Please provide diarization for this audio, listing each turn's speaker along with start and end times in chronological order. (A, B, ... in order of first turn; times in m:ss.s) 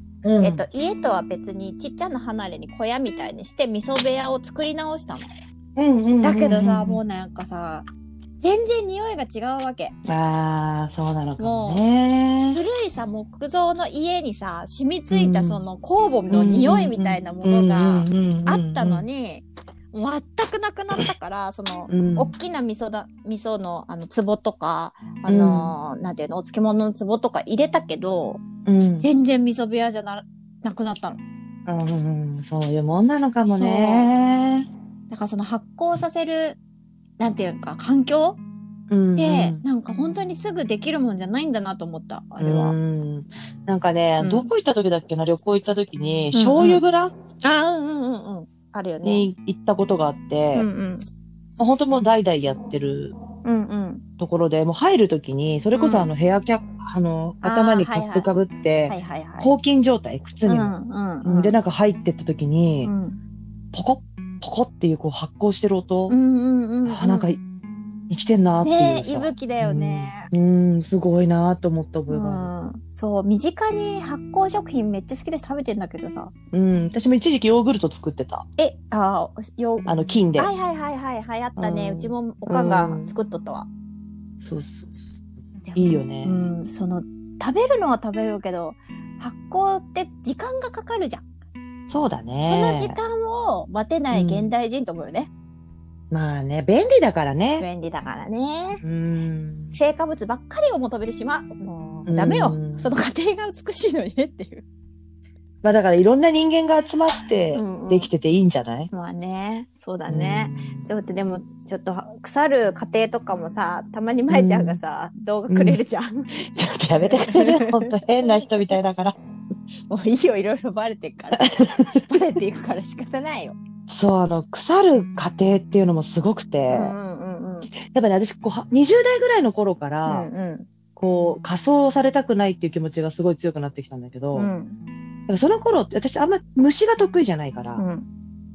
0:00.2-0:00.6 A
0:00.4-0:05.3 B
0:05.8-0:07.0 A
0:06.2-0:07.9 B
0:08.4-0:09.9 B
0:10.0-0:12.6 A
0:11.4-0:11.8 B
0:12.5-0:28.4 B
0:15.1-0:15.6 A
0:16.3-0:19.0 A
0:21.9-0:22.3 A
0:25.3-0:25.7 A
0:28.6-0:29.1 A
0:29.0-0:31.2 B
0:31.6-0:34.7 A
0:33.4-0:34.1 B
0:35.1-0:36.6 B
0:37.2-0:38.4 B
0:38.9-0:39.6 A
0:39.2-0:42.7 B
0:42.4-0:47.1 A
0:44.2-0:44.5 B
0:46.3-0:46.8 B
0:47.4-0:49.2 B
0:49.0-0:50.6 A
0:50.5-0:51.1 B
0:51.6-0:53.1 A
0:53.4-0:54.0 B
0:54.2-1:02.9 A
0:55.7-0:56.1 B
0:57.4-0:58.3 B
0:58.9-0:59.5 B
1:00.4-1:01.6 B
1:02.8-1:03.2 B
1:03.7-1:06.2 A
1:06.1-1:07.3 B
1:06.8-1:07.4 A
1:08.1-1:12.5 A
1:08.6-1:10.3 B
1:12.1-1:16.3 B
1:16.5-1:18.4 A
1:18.6-1:23.7 B
1:19.8-1:20.5 A
1:21.6-1:23.1 A
1:24.4-1:25.2 A
1:25.6-1:31.2 B
1:25.7-1:26.4 A
1:31.9-1:33.0 A
1:32.4-1:35.3 B
1:34.1-1:34.5 A
1:36.1-1:37.6 A
1:37.6-1:38.8 B
1:38.8-1:39.8 A
1:39.7-1:44.6 B
1:42.0-1:42.9 A
1:45.6-1:48.9 A
1:47.5-1:48.1 B
1:48.9-1:56.3 B
1:50.1-1:50.9 A
1:54.3-1:54.8 A
1:55.5-1:55.8 A
1:56.5-1:59.2 A
1:57.0-1:57.9 B
1:59.9-2:03.6 B
2:01.4-2:02.0 A
2:03.9-2:06.9 A
2:06.7-2:07.7 B
2:07.9-2:10.3 A
2:10.0-2:10.7 B
2:11.0-2:14.5 A
2:14.3-2:14.8 B
2:15.3-2:17.8 A
2:17.8-2:18.0 B